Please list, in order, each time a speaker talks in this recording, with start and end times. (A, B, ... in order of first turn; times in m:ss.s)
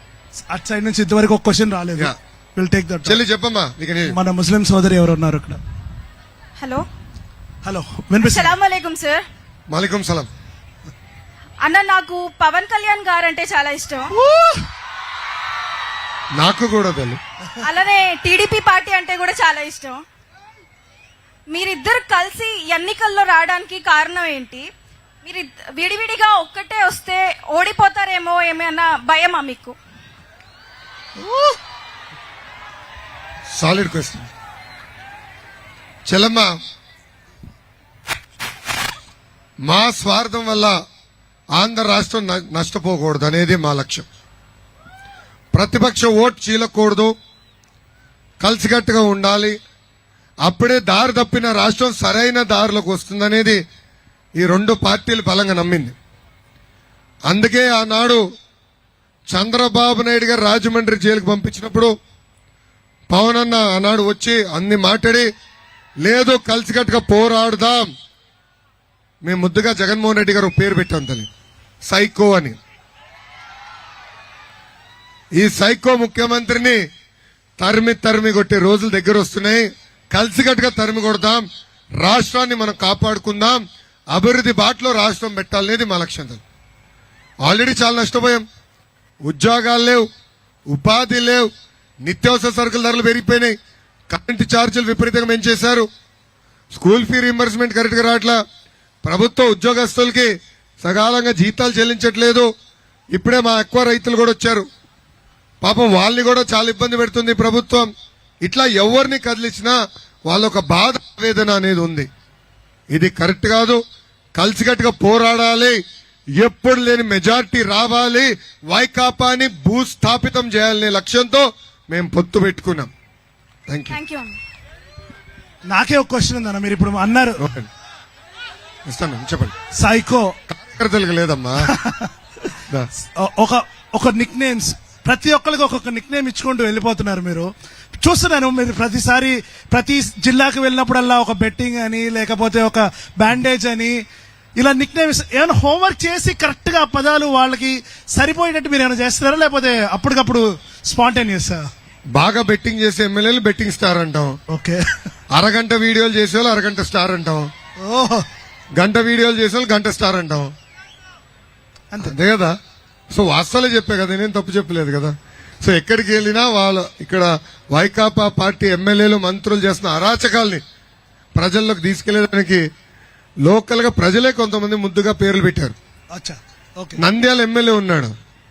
0:00.5-0:03.2 A
0:03.0-0:04.2 B
0:04.1-0:05.6 A
0:06.6-0:06.8 C
0:07.6-0:08.6 A
0:08.2-0:09.2 C
0:09.7-0:10.3 B
0:11.6-0:14.1 C
0:14.1-0:14.6 A
0:16.4-0:17.2 B
0:17.6-0:20.0 C
0:21.5-0:24.7 C
0:25.2-0:29.8 C
0:33.6-0:34.3 B
0:36.1-0:36.5 B
0:39.6-0:40.8 B
0:41.6-0:44.1 B
0:45.5-0:47.1 B
0:48.4-0:49.6 B
0:50.4-0:53.6 B
0:54.4-0:56.0 B
0:57.3-0:58.2 B
0:59.3-1:01.9 B
1:03.1-1:05.3 B
1:06.0-1:07.9 B
1:09.2-1:11.3 B
1:11.8-1:12.6 B
1:15.4-1:16.8 B
1:17.6-1:21.4 B
1:22.0-1:23.6 B
1:24.1-1:26.4 B
1:27.4-1:28.4 B
1:29.2-1:30.1 B
1:30.7-1:31.5 B
1:32.0-1:33.5 B
1:34.1-1:35.9 B
1:36.7-1:38.4 B
1:39.0-1:40.3 B
1:40.8-1:42.5 B
1:43.1-1:44.7 B
1:45.6-1:47.9 B
1:48.4-1:49.8 B
1:50.3-1:52.1 B
1:52.9-1:53.8 B
1:54.4-1:55.8 B
1:56.4-2:02.9 B
2:03.7-2:04.0 B
2:03.9-2:04.4 C
2:05.7-2:07.4 A
2:07.4-2:07.7 B
2:08.9-2:09.6 B
2:09.8-2:10.4 A
2:10.5-2:11.7 B
2:11.7-2:12.1 A
2:13.2-2:17.5 A
2:18.0-2:24.0 A
2:24.6-2:31.7 A
2:32.2-2:34.4 B
2:34.5-2:34.8 A
2:35.3-2:37.5 B
2:37.8-2:38.3 A
2:38.8-2:40.5 B
2:42.0-2:42.6 B
2:43.1-2:50.6 B
2:51.4-2:52.6 B
2:53.4-2:55.8 B
2:56.1-2:57.0 A
2:57.0-2:58.1 B